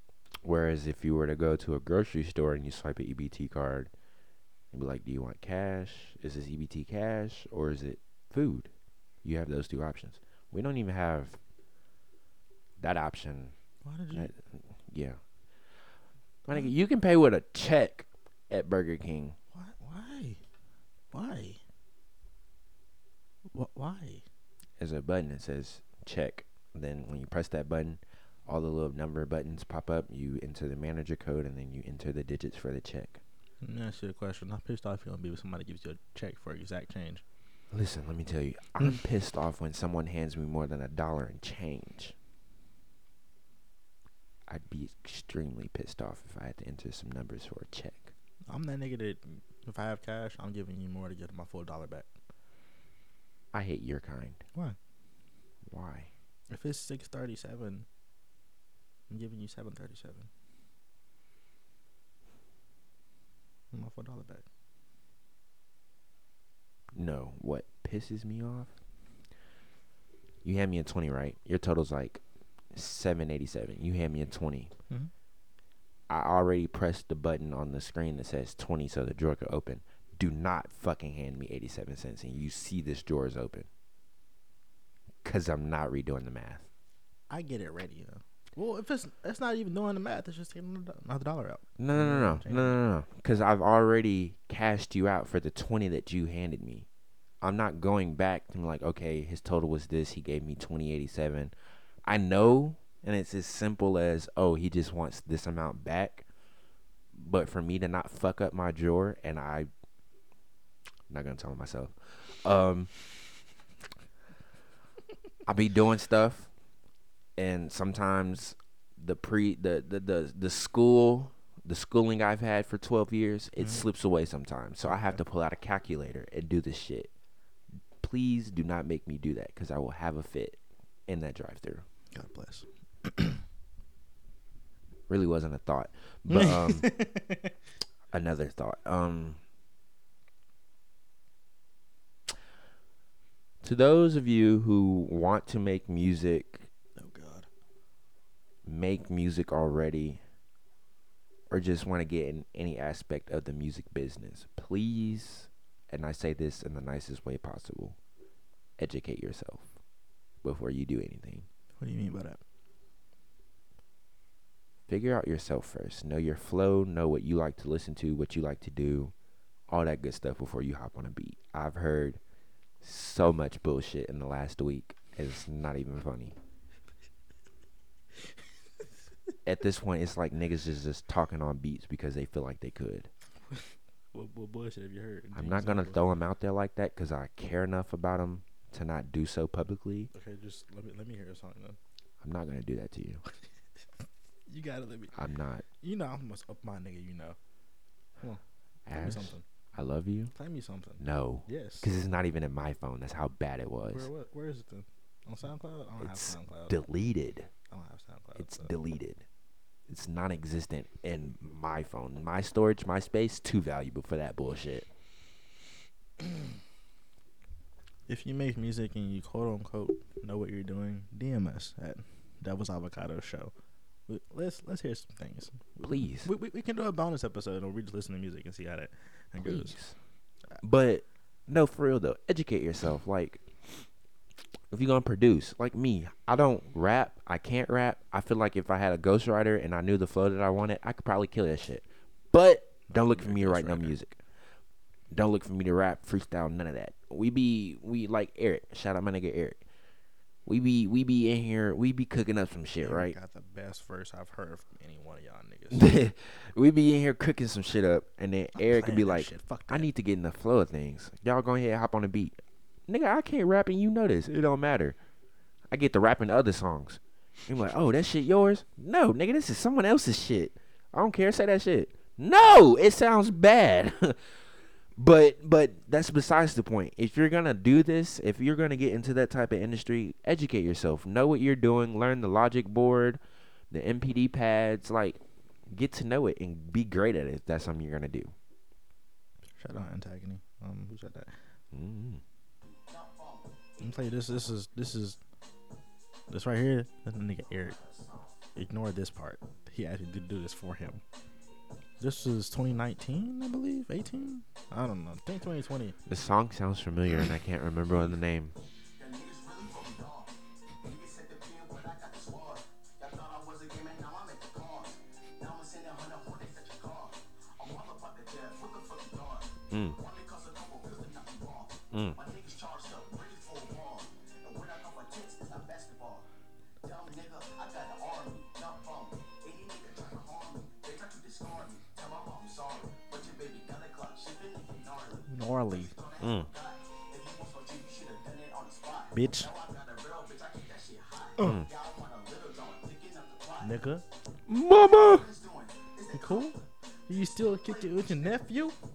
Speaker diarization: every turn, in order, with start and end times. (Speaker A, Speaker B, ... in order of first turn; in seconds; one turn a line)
Speaker A: 0.4-3.9
Speaker A: 4.7-8.7
Speaker A: 9.2-11.4
Speaker A: 12.8-13.6
Speaker B: 13.8-14.3
Speaker A: 14.1-15.2
Speaker A: 16.5-19.4
Speaker B: 19.5-20.4
Speaker B: 21.1-21.6
Speaker B: 23.5-24.2
Speaker A: 24.8-33.2
Speaker B: 33.6-37.2
Speaker A: 37.7-42.1
Speaker A: 44.5-48.1
Speaker B: 48.5-52.1
Speaker A: 53.5-54.4
Speaker A: 55.7-56.1
Speaker B: 56.5-57.9
Speaker B: 59.1-60.3
Speaker B: 63.7-64.5
Speaker A: 67.0-68.7
Speaker A: 70.4-74.7
Speaker A: 76.1-83.7
Speaker A: 85.2-86.7
Speaker B: 87.3-92.8
Speaker A: 91.8-96.9
Speaker A: 97.4-101.5
Speaker A: 102.1-106.3
Speaker A: 107.1-109.7
Speaker A: 111.1-112.9
Speaker A: 115.5-116.5
Speaker A: 117.4-127.1
Speaker B: 123.6-123.8
Speaker B: 124.8-125.2
Speaker A: 128.0-131.8
Speaker B: 132.1-133.4
Speaker A: 135.1-136.9
Speaker B: 136.3-137.5
Speaker A: 138.1-139.4
Speaker A: 143.6-146.7
Speaker B: 147.0-147.5
Speaker A: 148.7-150.2
Speaker A: 151.5-158.0
Speaker A: 158.8-159.7
Speaker A: 160.4-161.5
Speaker B: 161.8-162.4
Speaker A: 164.9-169.1
Speaker A: 169.7-172.2
Speaker A: 172.8-176.4
Speaker A: 179.4-183.1
Speaker B: 184.1-186.0
Speaker A: 185.3-190.1
Speaker B: 190.1-191.8
Speaker A: 192.2-193.2
Speaker B: 194.5-195.2
Speaker A: 195.1-195.7
Speaker B: 195.8-197.4
Speaker A: 198.9-200.3
Speaker B: 198.9-199.4
Speaker B: 200.3-201.9
Speaker A: 201.0-204.1
Speaker B: 203.9-206.8
Speaker A: 206.0-207.5
Speaker B: 207.7-208.7
Speaker A: 208.4-209.2
Speaker A: 209.9-214.9
Speaker B: 216.2-216.5
Speaker B: 218.1-223.5
Speaker B: 224.1-229.8
Speaker A: 225.8-226.3
Speaker A: 229.4-229.9
Speaker A: 230.6-233.5
Speaker A: 234.7-244.2
Speaker B: 242.9-244.0
Speaker A: 245.1-249.6
Speaker A: 250.5-253.2
Speaker B: 252.8-255.8
Speaker A: 255.7-265.0
Speaker B: 258.6-259.9
Speaker A: 265.7-274.2
Speaker A: 275.0-288.3
Speaker B: 289.6-291.3
Speaker A: 291.7-292.2
Speaker C: 292.7-293.6
Speaker B: 293.8-295.2
Speaker B: 296.3-297.8
Speaker C: 297.6-298.3
Speaker B: 298.6-301.0
Speaker B: 302.0-306.0
Speaker A: 306.1-308.6
Speaker C: 309.0-326.3
Speaker A: 319.7-320.0
Speaker A: 321.9-322.2
Speaker C: 326.8-343.9
Speaker B: 335.3-335.9
Speaker A: 336.2-336.5
Speaker B: 339.1-339.5
Speaker A: 341.4-341.7
Speaker B: 343.6-344.0
Speaker A: 344.5-345.3
Speaker C: 344.8-348.7
Speaker B: 346.1-346.6
Speaker B: 347.1-348.8